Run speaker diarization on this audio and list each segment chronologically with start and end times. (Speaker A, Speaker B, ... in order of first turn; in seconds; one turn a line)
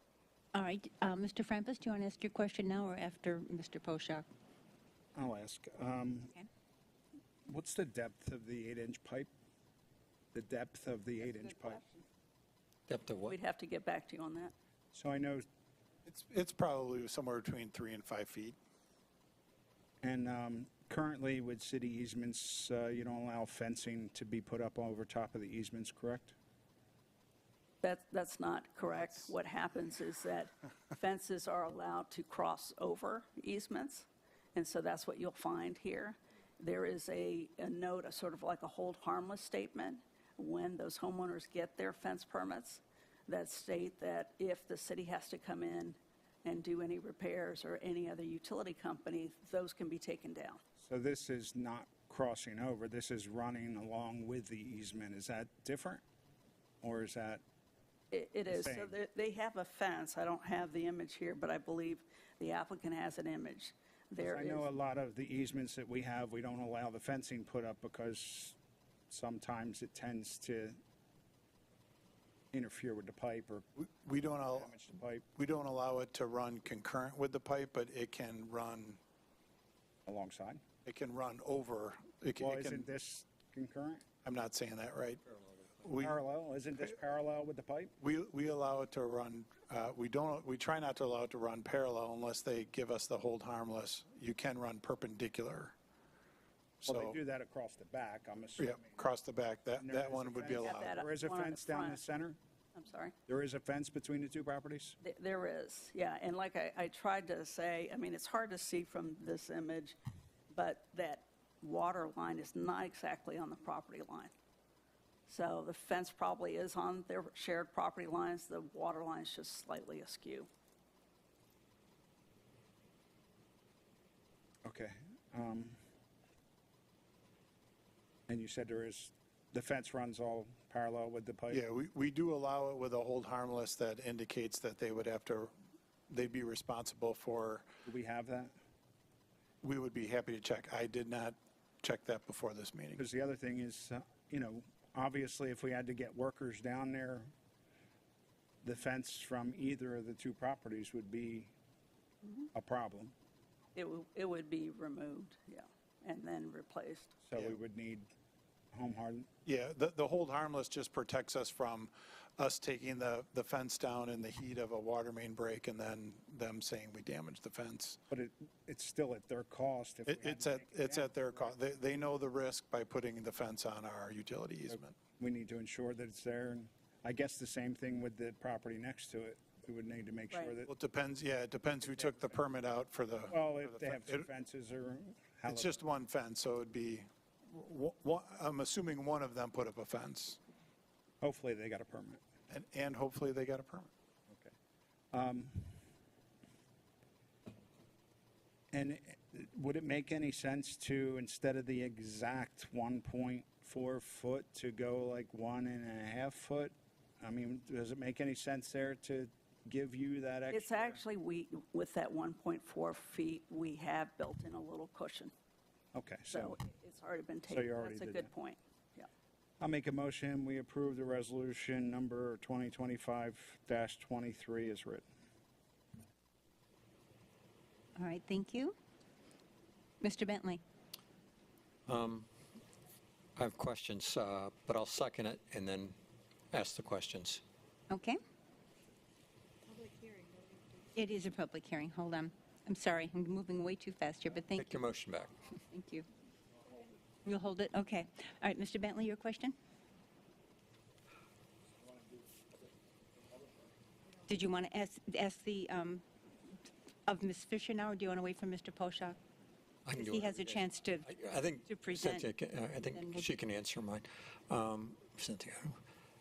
Speaker A: 0.5-4.3
Speaker B: 5.2-6.3
Speaker B: 7.5-9.3
Speaker B: 10.3-11.8
Speaker C: 11.2-12.1
Speaker D: 12.9-13.4
Speaker C: 13.3-14.5
Speaker B: 14.9-15.5
Speaker E: 16.1-18.6
Speaker B: 20.0-26.4
Speaker C: 27.8-50.6
Speaker B: 50.8-56.0
Speaker B: 56.8-57.4
Speaker C: 58.1-64.7
Speaker B: 58.5-59.0
Speaker B: 64.2-68.6
Speaker B: 69.1-70.8
Speaker B: 72.5-73.7
Speaker E: 73.8-74.7
Speaker B: 74.5-75.3
Speaker E: 75.4-79.0
Speaker B: 80.1-80.6
Speaker E: 80.8-82.9
Speaker B: 82.4-84.0
Speaker E: 84.2-85.2
Speaker D: 85.3-85.7
Speaker E: 85.8-86.2
Speaker B: 86.0-88.0
Speaker E: 88.0-95.8
Speaker B: 96.8-99.1
Speaker E: 96.9-97.2
Speaker E: 98.6-100.9
Speaker B: 99.8-102.4
Speaker C: 100.6-102.0
Speaker C: 102.8-103.1
Speaker B: 103.3-105.0
Speaker C: 105.0-110.0
Speaker C: 110.5-114.3
Speaker C: 115.3-120.5
Speaker B: 124.7-125.8
Speaker B: 128.3-131.6
Speaker E: 131.5-135.5
Speaker E: 136.1-137.7
Speaker B: 137.8-138.6
Speaker E: 139.6-143.0
Speaker B: 143.0-147.3
Speaker B: 148.6-151.5
Speaker B: 152.5-153.1
Speaker C: 153.8-157.1
Speaker B: 157.3-158.1
Speaker B: 158.7-159.3
Speaker E: 159.5-168.0
Speaker B: 168.1-171.6
Speaker E: 170.1-174.9
Speaker B: 174.7-180.7
Speaker E: 180.7-184.2
Speaker B: 183.3-185.8
Speaker E: 185.5-190.4
Speaker B: 191.2-192.2
Speaker E: 192.5-193.9
Speaker B: 194.3-194.5
Speaker B: 195.1-195.8
Speaker B: 198.7-211.0
Speaker C: 210.5-215.3
Speaker B: 215.9-216.6
Speaker C: 216.3-219.1
Speaker B: 217.5-218.3
Speaker B: 219.6-225.0
Speaker A: 228.0-228.8
Speaker A: 230.0-230.6
Speaker D: 231.9-232.3
Speaker D: 233.4-236.0
Speaker D: 236.5-237.4
Speaker A: 237.9-238.2
Speaker A: 240.9-244.8
Speaker D: 244.6-245.4
Speaker A: 245.6-246.1
Speaker A: 247.2-249.6
Speaker A: 254.3-256.0
Speaker A: 257.1-259.2
Speaker D: 259.9-265.8
Speaker A: 259.9-261.1
Speaker A: 261.7-262.3
Speaker A: 262.8-263.3